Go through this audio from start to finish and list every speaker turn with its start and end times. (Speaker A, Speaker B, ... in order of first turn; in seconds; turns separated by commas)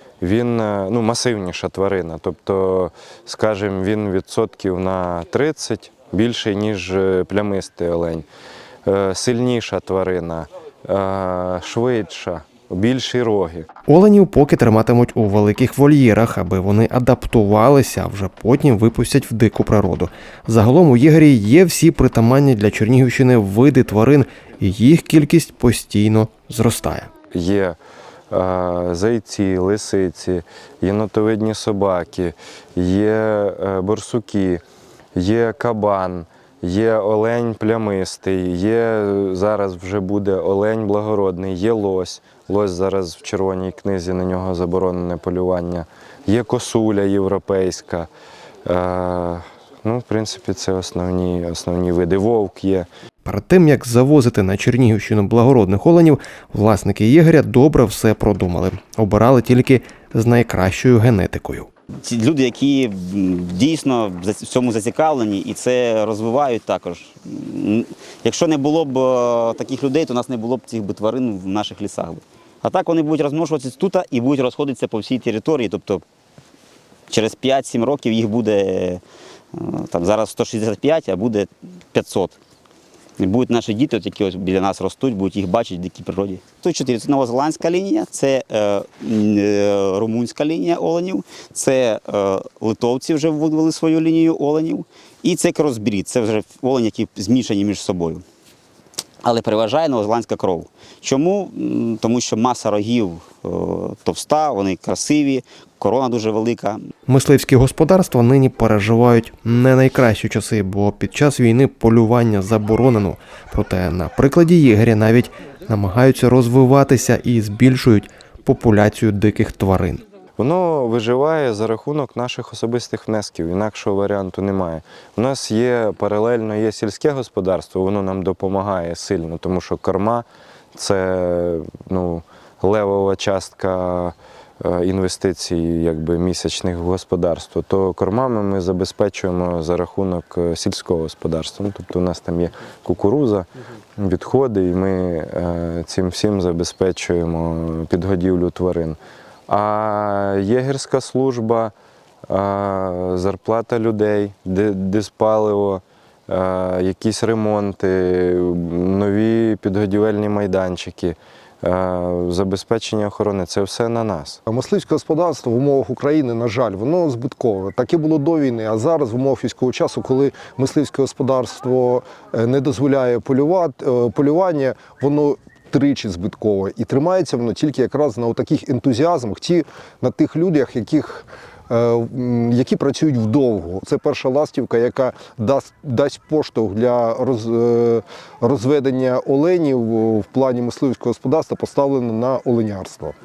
Speaker A: 0.2-8.3, Speaker A: 8.9-13.7, Speaker B: 13.9-27.1, Speaker A: 27.3-27.8, Speaker A: 28.3-34.6, Speaker A: 35.1-48.1, Speaker A: 48.7-52.9, Speaker B: 53.2-61.7, Speaker C: 62.0-76.0, Speaker C: 77.1-79.0, Speaker C: 79.5-82.3, Speaker C: 83.2-98.2, Speaker C: 99.2-106.8, Speaker B: 107.1-120.0, Speaker A: 120.4-151.8, Speaker A: 152.3-164.4, Speaker D: 164.5-193.1